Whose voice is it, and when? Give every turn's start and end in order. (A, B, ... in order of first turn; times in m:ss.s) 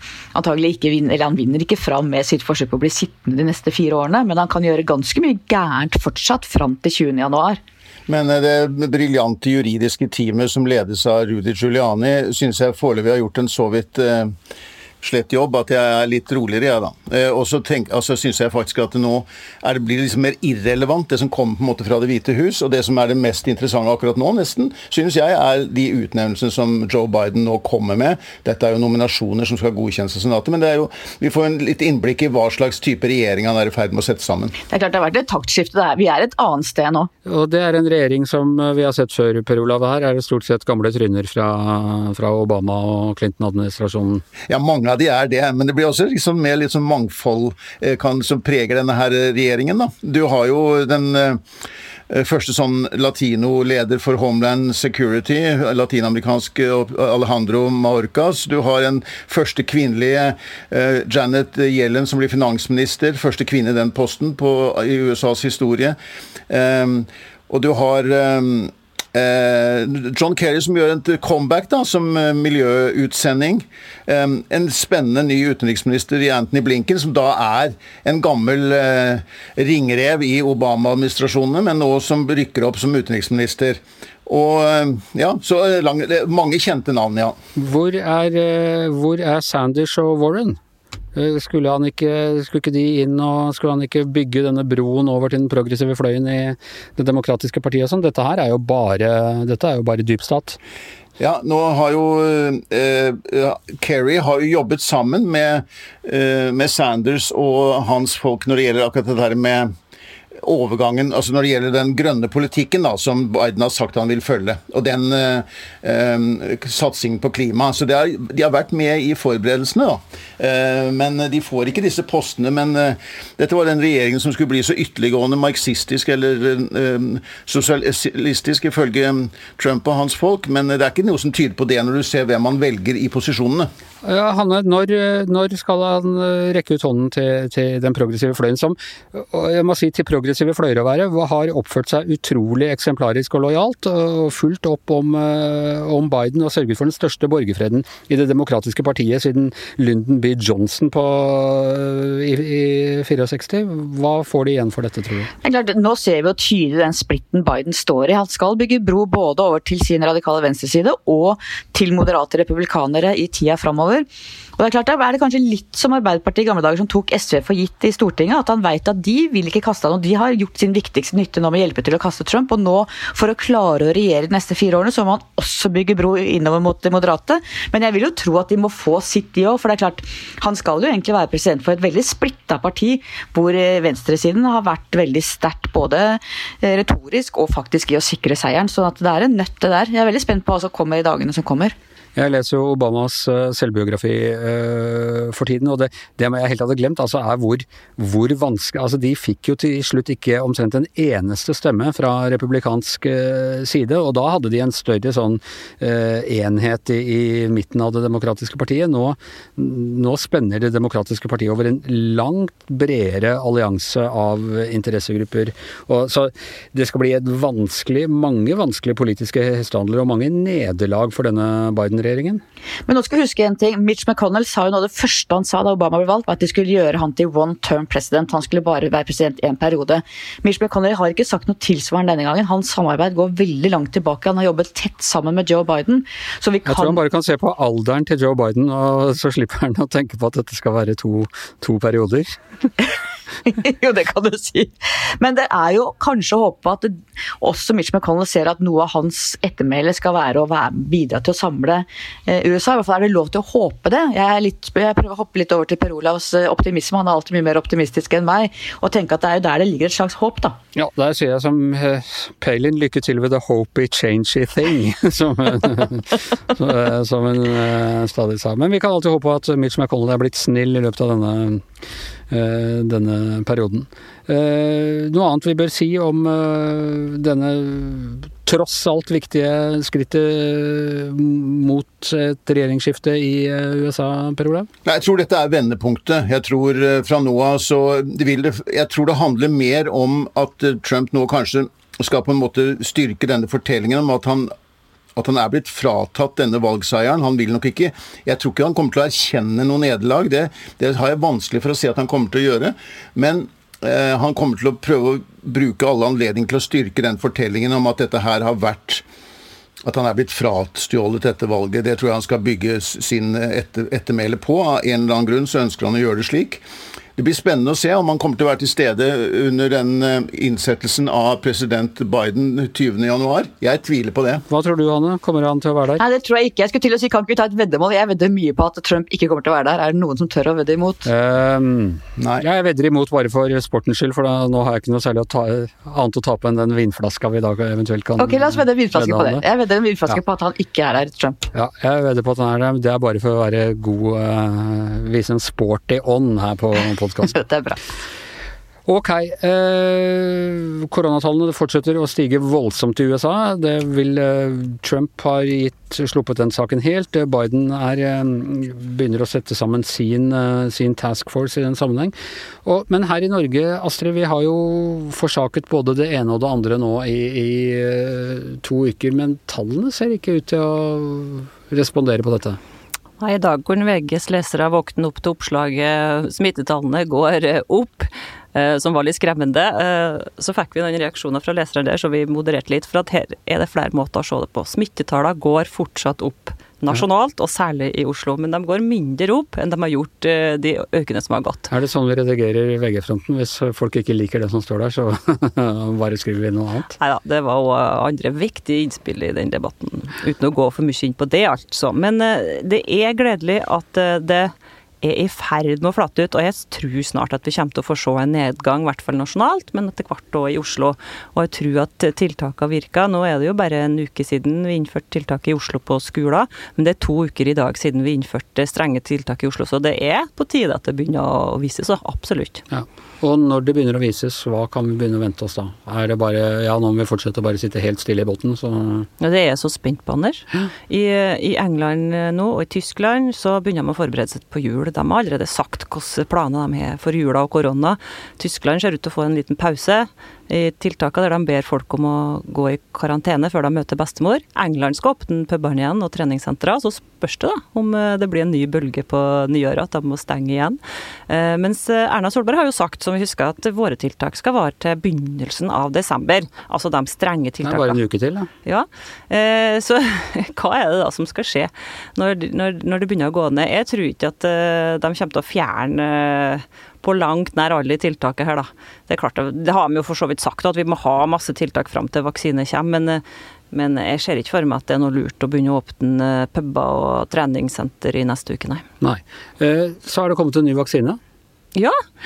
0:00.3-0:07.6 A
0:08.1-0:14.3 B
0:15.0-0:34.5 B
0:34.7-0:37.1 A
0:37.2-0:44.2 C
0:44.5-0:51.4 B
0:52.1-1:06.0 B
1:06.5-1:27.3 B
1:27.6-1:30.6 C
1:31.1-1:40.6 C
1:41.2-1:49.7 B
1:50.4-2:13.7 B
2:14.0-2:35.3 C
2:35.4-2:44.0 A
2:44.6-3:11.7 A
3:12.2-3:42.4 C
3:42.9-3:57.0 A
3:56.6-4:02.3 C
4:03.4-4:20.6 A
4:20.7-4:31.6 C
4:32.3-4:44.7 C
4:44.8-4:54.5 B
4:55.2-5:09.0 B
5:09.8-5:16.6 B
5:17.2-5:24.4 B
5:24.5-5:26.0 C
5:26.0-5:31.1 A
5:31.0-5:39.4 C
5:32.2-5:32.4 B
5:38.2-5:41.4 A
5:41.5-5:47.4 C
5:47.3-5:47.8 A
5:48.8-6:12.6 C
6:13.2-6:31.7 D
6:31.7-6:37.0 C
6:37.0-7:02.6 D
7:02.7-7:09.1 C
7:09.2-7:38.0 D
7:37.6-7:38.5 C
7:38.6-7:58.8 D
7:59.0-8:01.2 C